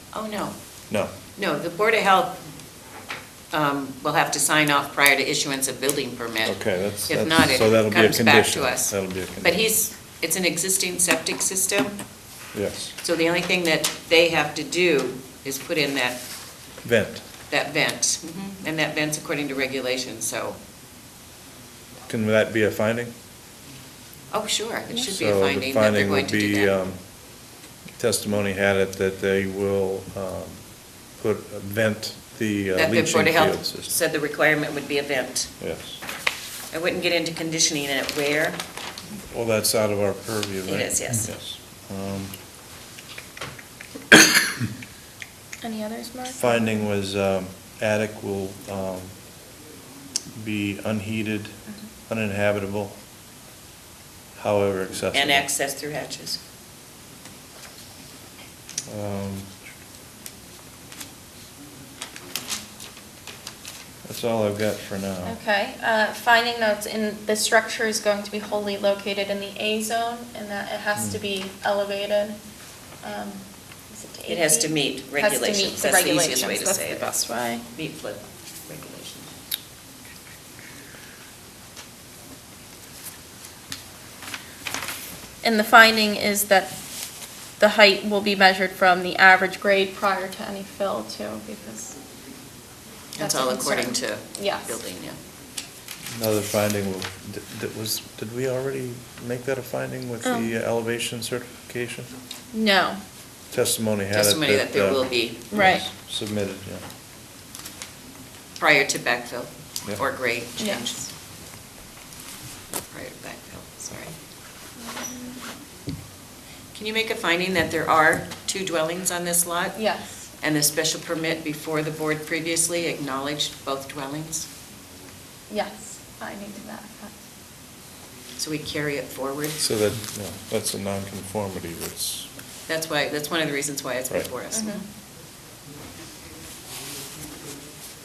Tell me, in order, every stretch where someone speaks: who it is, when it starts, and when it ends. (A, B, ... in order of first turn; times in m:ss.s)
0:00.1-0:00.6 A
0:01.3-0:02.4 A
0:03.5-0:12.0 A
0:06.4-0:09.6 B
0:12.5-0:13.0 B
0:13.0-0:16.2 A
0:16.8-0:17.3 B
0:17.5-0:20.6 A
0:22.1-0:23.1 B
0:24.3-0:26.7 A
0:25.0-0:27.1 B
0:28.0-0:33.9 B
0:32.7-0:35.5 A
0:35.6-0:36.0 B
0:36.7-0:38.6 A
0:39.3-0:42.4 B
0:40.7-0:41.4 A
0:45.6-0:46.8 C
0:46.3-0:49.2 B
0:50.3-0:53.0 B
0:54.4-0:55.5 B
0:55.1-0:56.4 A
0:58.9-0:59.6 B
1:04.0-1:05.4 B
1:05.2-1:12.4 C
1:13.0-1:17.6 C
1:14.3-1:17.2 A
1:17.7-1:19.3 A
1:25.4-1:26.7 C
1:27.6-1:32.0 C
1:33.2-1:35.2 A
1:33.2-1:34.8 C
1:36.1-1:42.1 B
1:40.2-1:40.5 C
1:42.5-1:43.0 C
1:43.5-1:46.9 B
1:44.1-1:45.4 A
1:45.5-1:45.9 C
1:48.6-1:51.1 A
1:50.6-1:50.9 C
1:52.9-1:54.2 A
1:54.8-1:55.4 C
1:56.8-1:59.8 A
1:59.8-2:00.2 C
2:00.4-2:04.5 A
2:05.5-2:07.2 C
2:08.4-2:09.6 A
2:09.6-2:12.3 B
2:12.7-2:14.8 A
2:14.5-2:14.8 C